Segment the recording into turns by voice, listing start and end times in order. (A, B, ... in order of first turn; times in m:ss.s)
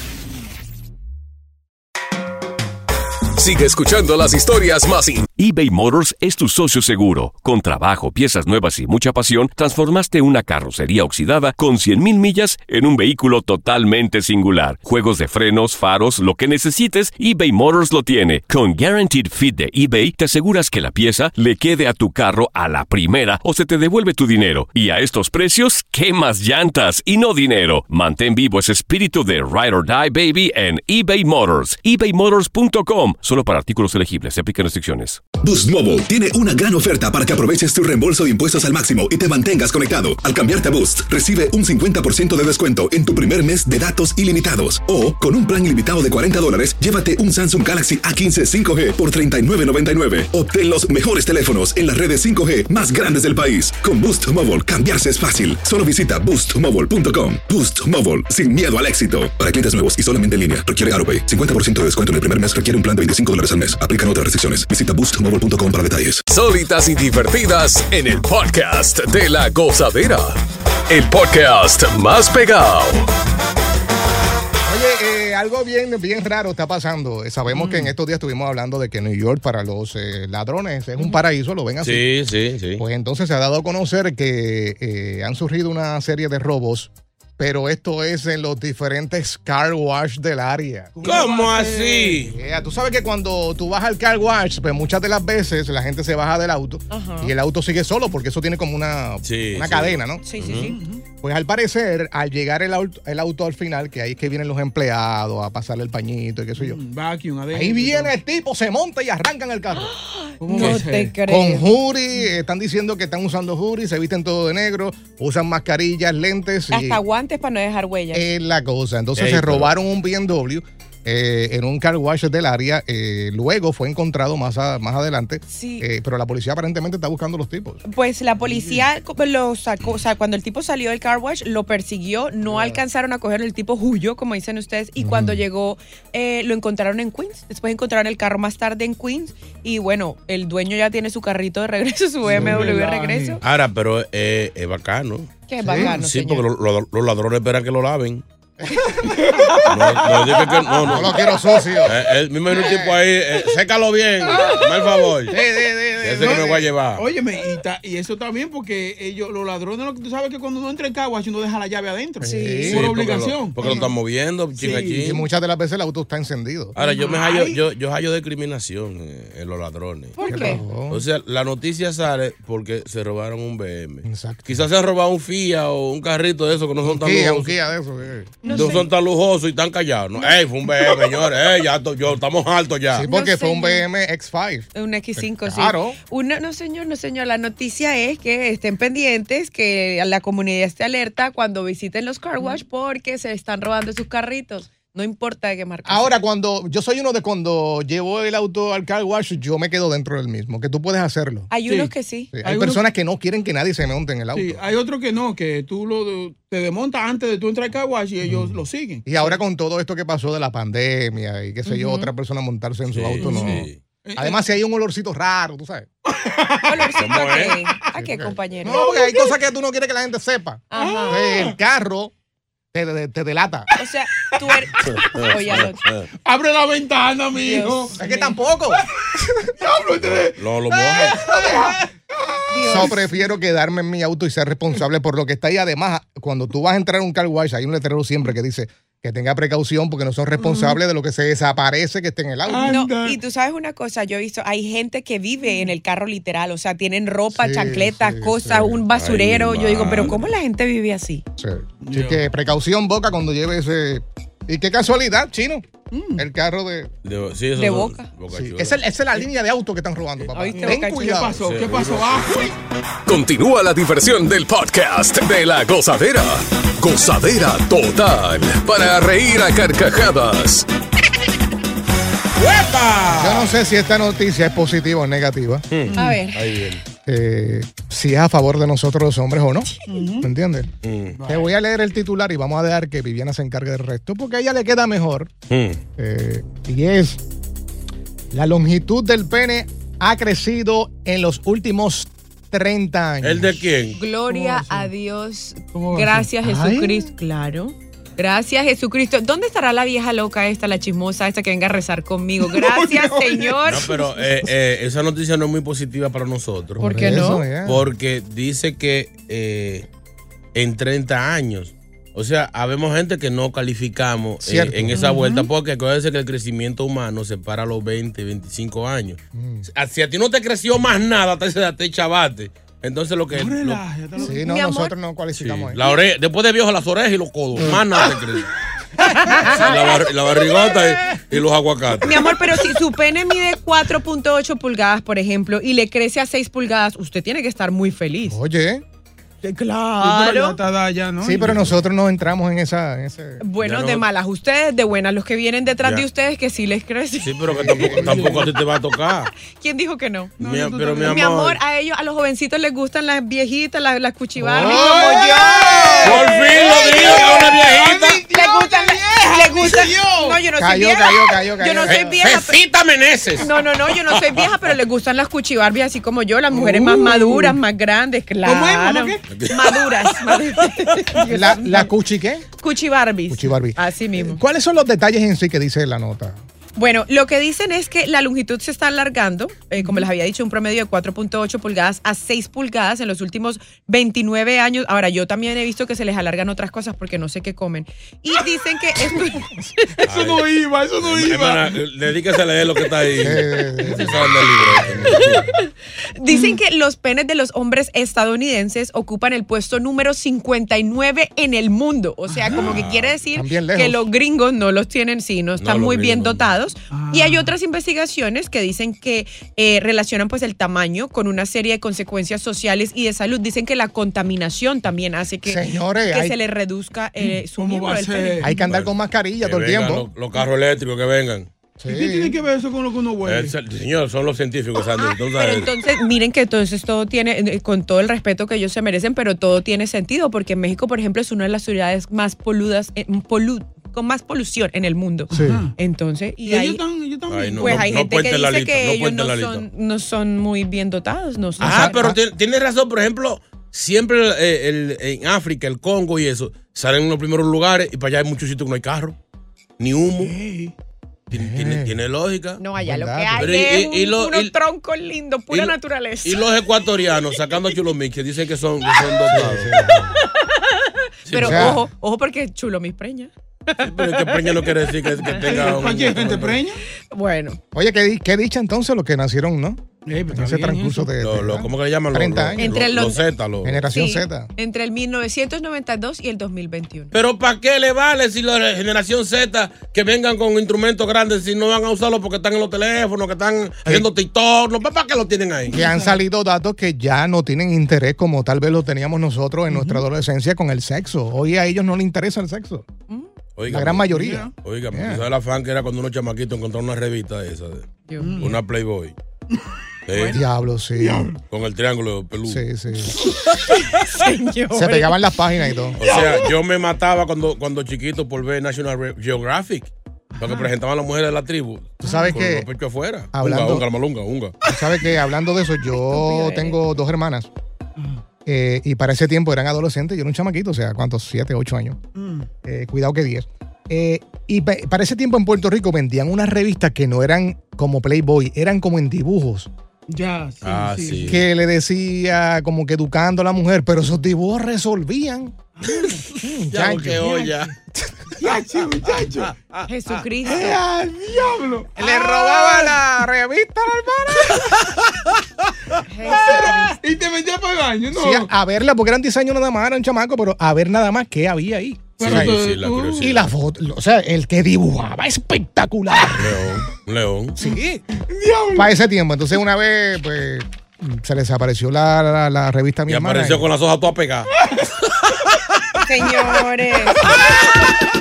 0:03.4-0:05.3 A
0:05.4-0:35.2 B
0:35.4-1:06.2 C
1:06.3-1:13.1 A
1:14.6-1:22.1 D
1:17.5-1:17.9 E
1:21.8-1:22.8 F
1:22.8-1:31.0 D
1:31.0-1:32.2 E
1:31.0-1:32.4 F
1:32.3-1:40.3 D
1:36.9-1:37.3 G
1:39.2-1:40.8 F
1:40.2-1:40.8 G
1:40.7-1:41.0 E
1:41.2-1:46.8 D
1:46.6-1:48.1 E
1:47.5-1:49.9 D
1:49.7-1:51.7 G
1:50.4-1:51.2 E
1:50.5-1:57.0 D
1:56.7-1:58.3 G
1:58.1-2:07.8 D
1:59.2-1:59.7 F
2:05.5-2:05.9 G
2:07.9-2:23.4 G
2:08.4-2:08.8 E
2:12.5-2:12.8 D
2:15.0-2:15.4 D
2:22.2-2:23.4 E
2:22.3-2:22.7 D
2:23.4-2:28.2 F
2:25.5-2:26.4 G
2:25.6-2:26.0 D
2:28.6-2:28.9 D
2:28.8-2:31.8 G
2:29.0-2:29.6 E
2:29.7-2:31.2 F
2:30.9-2:32.0 D
2:31.8-2:35.4 F
2:32.5-2:33.0 D
2:34.3-2:35.0 G
2:35.3-2:36.7 D
2:36.0-2:37.1 F
2:36.2-2:43.9 E
2:42.2-2:42.8 D
2:42.2-2:42.8 G
2:42.7-2:45.2 F
2:43.6-2:43.9 D
2:44.6-2:45.0 E
2:44.6-2:46.8 D
2:46.8-2:50.2 F
2:47.0-2:47.6 E
2:50.2-2:50.7 G
2:50.3-2:51.0 D
2:50.8-2:57.6 F
2:54.0-2:54.6 D
2:56.8-2:58.4 D
2:58.4-2:58.9 G
2:58.5-3:03.1 F
3:02.9-3:06.0 D
3:03.1-3:03.9 G
3:04.8-3:16.2 G
3:15.8-3:21.5 D
3:21.5-3:22.3 G
3:21.6-3:21.9 E
3:22.3-3:24.6 D
3:22.4-3:22.8 E
3:24.3-3:29.4 E
3:28.3-3:35.9 D
3:31.7-3:32.1 G
3:32.8-3:33.8 F
3:33.2-3:34.4 E
3:36.0-3:36.9 E
3:36.6-3:38.9 G
3:37.0-3:37.6 F
3:38.0-3:42.1 D
3:38.7-3:39.4 E
3:40.7-3:41.2 G
3:40.8-3:41.6 E
3:42.7-3:43.7 D
3:43.8-3:45.8 G
3:44.1-3:45.2 E
3:44.9-3:46.0 F
3:46.2-3:48.0 E
3:47.3-3:48.4 G
3:48.0-3:48.8 D
3:48.8-3:53.0 E
3:50.0-3:51.2 F
3:52.5-3:53.2 G
3:52.6-4:02.8 D
4:00.4-4:00.8 E
4:02.4-4:03.2 E
4:02.6-4:11.2 G
4:07.3-4:08.8 D
4:08.9-4:10.2 F
4:11.4-4:16.9 D
4:11.8-4:12.2 E
4:15.9-4:16.2 E
4:17.0-4:18.8 F
4:17.6-4:18.1 G
4:18.3-4:21.4 D
4:20.3-4:22.6 E
4:20.3-4:21.2 G
4:21.4-4:22.4 F
4:23.1-4:30.7 A
4:32.4-4:33.6 F
4:33.2-4:35.7 D
4:35.7-4:36.8 F
4:35.9-4:36.2 E
4:35.9-4:36.4 G
4:37.1-4:40.7 D
4:39.9-4:40.3 E
4:40.8-4:41.2 F
4:41.2-4:41.5 E
4:41.3-4:45.3 D
4:45.5-4:45.8 F
4:46.0-4:47.2 D
4:48.3-4:53.7 D
4:53.2-4:54.0 F
4:53.9-5:04.0 G
4:54.3-4:54.9 E
4:55.7-4:56.4 E
4:56.4-4:57.1 D
5:02.4-5:04.3 E
5:03.6-5:09.9 F
5:06.8-5:07.4 G
5:07.0-5:07.9 D
5:10.6-5:23.8 F
5:14.4-5:15.0 D
5:15.0-5:15.5 E
5:19.3-5:19.7 D
5:23.3-5:24.4 E
5:24.2-5:24.9 G
5:24.2-5:25.8 D
5:25.4-5:28.5 F
5:29.0-5:30.0 G
5:29.4-5:32.3 F
5:32.0-5:38.4 G
5:38.3-5:38.8 D
5:39.4-5:40.6 G
5:40.0-5:41.6 E
5:41.2-5:43.4 D
5:41.4-5:41.8 F
5:43.4-5:48.4 G
5:43.6-5:44.1 F
5:47.2-5:49.3 F
5:47.5-5:48.5 D
5:49.3-5:50.3 G
5:50.4-5:51.2 E
5:50.4-5:51.6 F
5:51.0-6:02.6 G
5:54.4-5:54.9 D
5:54.6-6:00.4 E
5:54.7-5:55.1 F
5:55.7-5:58.2 F
6:00.6-6:02.2 D
6:01.9-6:04.8 F
6:03.4-6:12.0 G
6:06.5-6:07.6 E
6:08.4-6:09.2 E
6:09.3-6:09.8 F
6:11.3-6:12.5 D
6:12.6-6:14.4 G
6:13.3-6:16.4 D
6:16.8-6:30.1 G
6:30.0-6:35.5 F
6:30.1-6:31.8 E
6:33.2-6:35.3 D
6:33.8-6:34.2 G
6:35.1-6:58.7 G
6:42.3-6:42.8 E
6:42.5-6:43.2 F
6:43.3-6:44.0 D
6:45.6-6:46.5 F
6:46.9-6:47.5 E
6:55.4-6:56.4 D
6:57.2-6:58.6 E
6:58.4-7:00.1 D
6:58.7-7:01.5 F
7:01.8-7:02.4 D
7:01.9-7:03.6 E
7:03.2-7:05.7 F
7:05.0-7:16.8 G
7:15.3-7:15.7 D
7:15.3-7:15.8 E
7:16.4-7:17.9 E
7:17.3-7:19.7 F
7:17.3-7:22.1 G
7:21.6-7:22.2 D
7:21.6-7:29.2 F
7:29.8-7:30.4 F
7:30.2-7:30.7 E
7:31.3-7:32.0 D
7:31.3-7:32.6 F
7:32.6-7:36.5 G
7:32.8-7:33.5 D
7:33.4-7:34.6 F
7:35.5-7:39.7 F
7:39.3-7:40.2 D
7:39.8-7:45.8 G
7:41.3-7:41.8 F
7:41.4-7:41.8 D
7:43.8-7:46.6 F
7:45.3-7:46.8 E
7:47.1-7:47.6 G
7:47.7-7:52.7 D
7:50.1-7:51.1 E
7:51.2-7:53.9 F
7:52.6-7:53.2 G
7:53.6-7:54.5 D
7:53.9-7:57.2 G
7:57.1-8:05.8 F
8:05.7-8:06.2 E
8:05.7-8:12.9 D
8:09.7-8:10.0 E
8:13.6-8:19.2 F
8:13.7-8:15.3 D
8:14.2-8:14.5 E
8:18.1-8:18.4 G
8:18.2-8:18.6 E
8:19.5-8:20.4 E
8:20.1-8:20.4 F
8:20.3-8:21.3 D
8:21.0-8:21.4 E
8:21.5-8:22.7 F
8:22.4-8:23.2 D
8:23.5-8:25.2 G
8:24.7-8:26.0 D
8:26.0-8:34.6 F
8:26.0-8:26.6 E
8:30.4-8:30.7 E
8:32.0-8:32.7 D
8:32.0-8:32.3 E
8:33.3-8:33.9 D
8:34.6-8:35.2 E
8:34.7-8:37.5 D
8:36.0-8:36.8 G
8:38.0-8:38.2 E
8:38.5-8:42.0 D
8:42.2-8:42.5 E
8:42.6-8:49.7 D
8:50.1-8:51.3 E
8:50.6-8:51.4 F
8:51.3-8:55.6 D
8:55.9-8:56.2 E
8:56.3-8:57.3 D
8:56.7-8:57.7 F
8:58.4-8:59.6 E
8:59.8-9:00.1 F
8:59.9-9:00.8 G
9:00.4-9:02.0 E
9:02.0-9:04.7 D
9:02.0-9:02.9 G
9:06.1-9:07.0 G
9:06.2-9:08.5 E
9:08.1-9:12.6 D
9:12.2-9:13.3 E
9:12.2-9:13.5 F
9:13.2-9:16.6 D
9:16.4-9:17.6 F
9:17.6-9:18.0 D
9:17.6-9:19.0 E
9:18.8-9:23.7 D
9:23.1-9:24.6 F
9:26.0-9:27.9 G